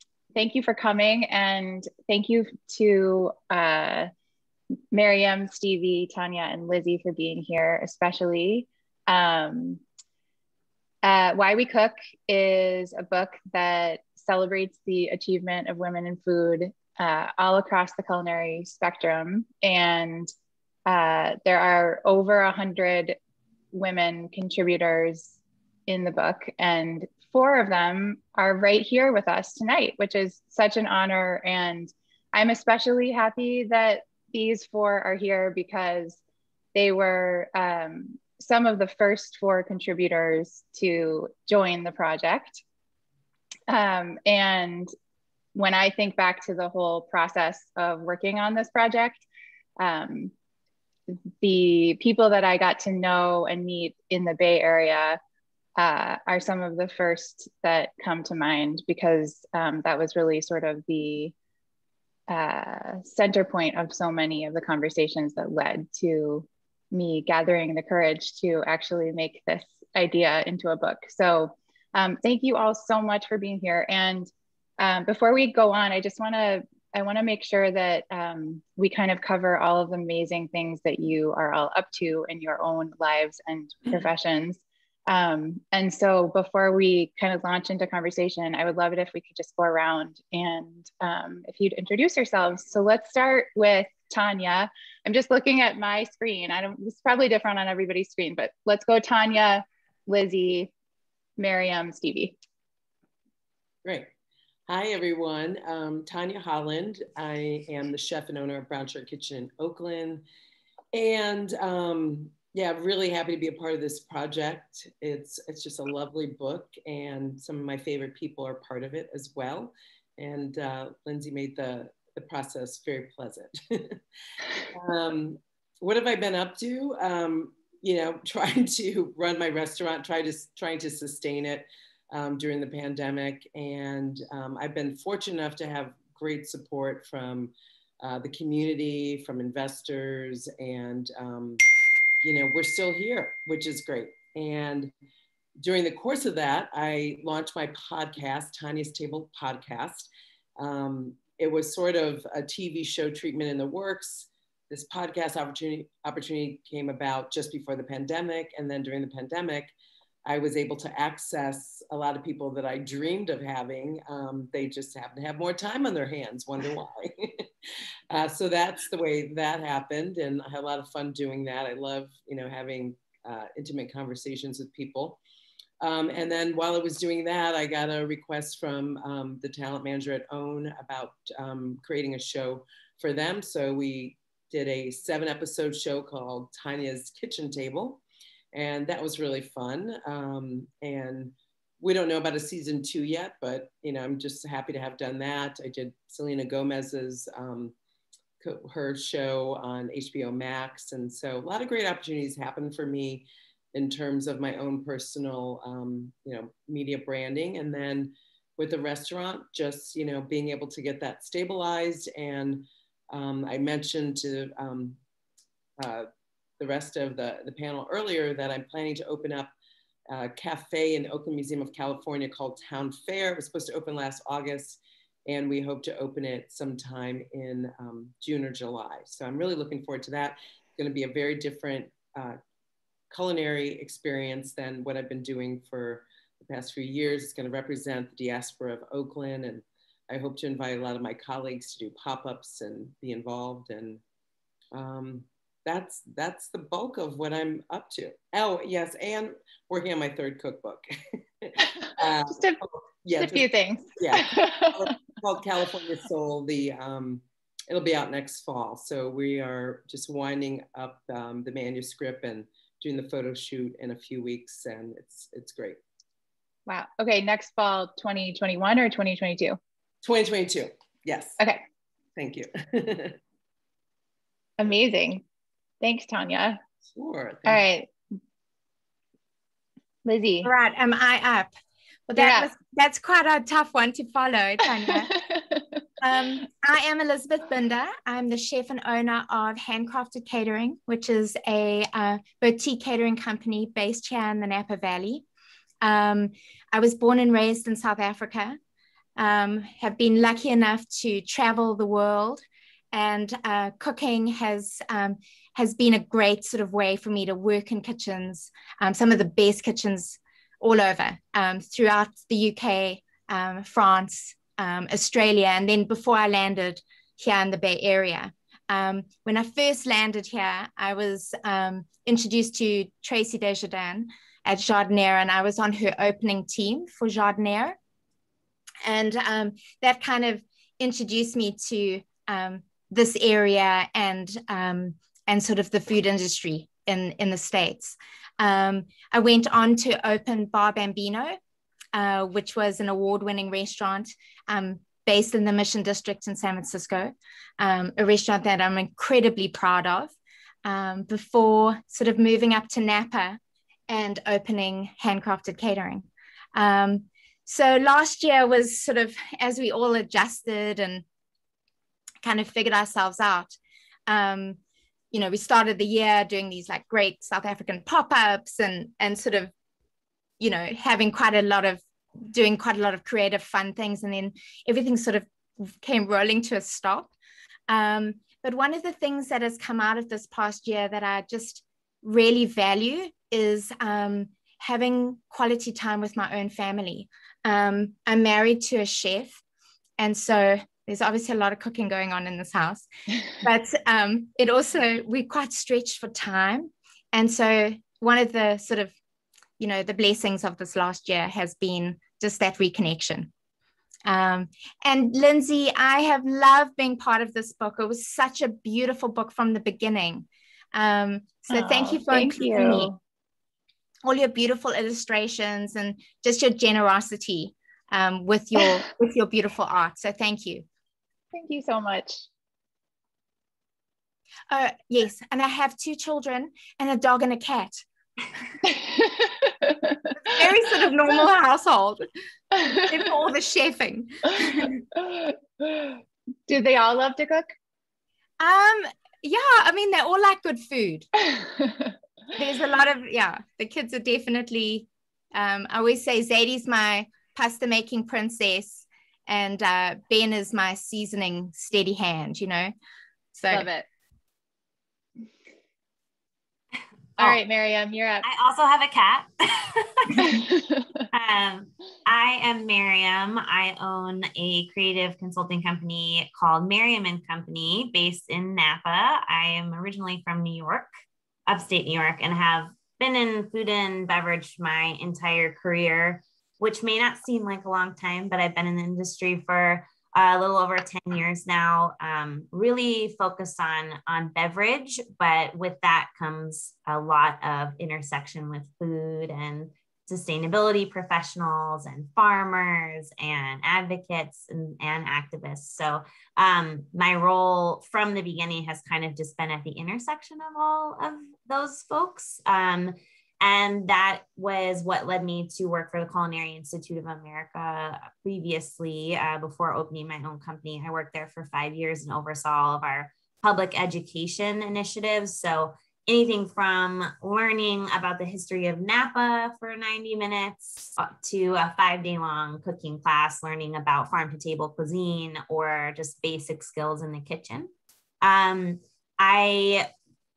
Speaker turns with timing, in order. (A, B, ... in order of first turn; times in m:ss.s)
0:00.3-0:04.1 A
0:04.9-0:09.8 A
0:11.0-0:20.3 A
0:20.8-0:23.2 A
0:23.7-0:25.4 A
0:25.9-0:36.2 A
0:36.7-0:42.6 A
0:43.7-0:44.9 A
0:45.5-0:49.2 A
0:49.8-0:50.3 A
0:51.4-0:55.2 A
0:55.8-1:01.3 A
1:02.3-1:40.7 A
1:41.4-1:42.4 A
1:43.8-1:44.1 B
1:44.7-1:50.2 B
1:50.9-2:04.0 B
2:04.7-2:21.6 B
2:22.2-2:24.9 B
2:25.6-2:39.7 B
2:40.2-2:47.5 B
2:48.1-2:55.2 B
2:55.8-3:08.0 B
3:08.5-3:17.7 B
3:18.4-3:35.0 B
3:35.8-3:36.1 B
3:36.6-3:39.5 B
3:40.1-3:52.4 B
3:53.1-4:04.0 B
4:04.7-4:25.8 B
4:11.8-4:12.6 A
4:13.2-4:14.9 A
4:26.7-4:29.6 A
4:30.0-4:31.4 B
4:32.2-4:33.2 B
4:34.6-4:35.2 A
4:35.8-4:36.6 A
4:36.9-4:37.6 B
4:37.4-4:37.9 A
4:40.0-4:40.5 A
4:40.4-4:41.5 C
4:42.1-4:45.2 C
4:42.2-4:42.5 A
4:44.9-4:45.6 A
4:46.0-4:55.2 C
4:55.8-4:58.6 C
4:59.2-5:27.8 C
5:28.8-5:41.4 C
5:41.9-6:01.0 C
6:02.2-6:03.6 C
6:04.1-6:04.6 C
6:05.1-6:09.5 C
6:10.4-6:17.1 C
6:17.7-6:29.4 C
6:30.0-6:38.9 C
6:39.6-6:43.3 C
6:44.0-6:52.9 C
6:51.5-6:53.0 A
6:54.0-7:00.6 C
7:01.3-7:02.2 A
7:04.5-7:07.8 C
7:08.6-7:10.1 A
7:10.2-7:12.1 C
7:12.7-7:14.7 C
7:14.9-7:17.5 A
7:18.4-7:21.1 C
7:21.3-7:21.9 A
7:22.4-7:32.7 C
7:33.3-7:33.7 C
7:33.5-7:33.8 A
7:37.2-7:38.2 A
7:38.2-7:40.4 D
7:40.2-7:40.5 A
7:41.1-7:50.9 D
7:51.5-8:47.7 D
8:48.2-8:49.9 D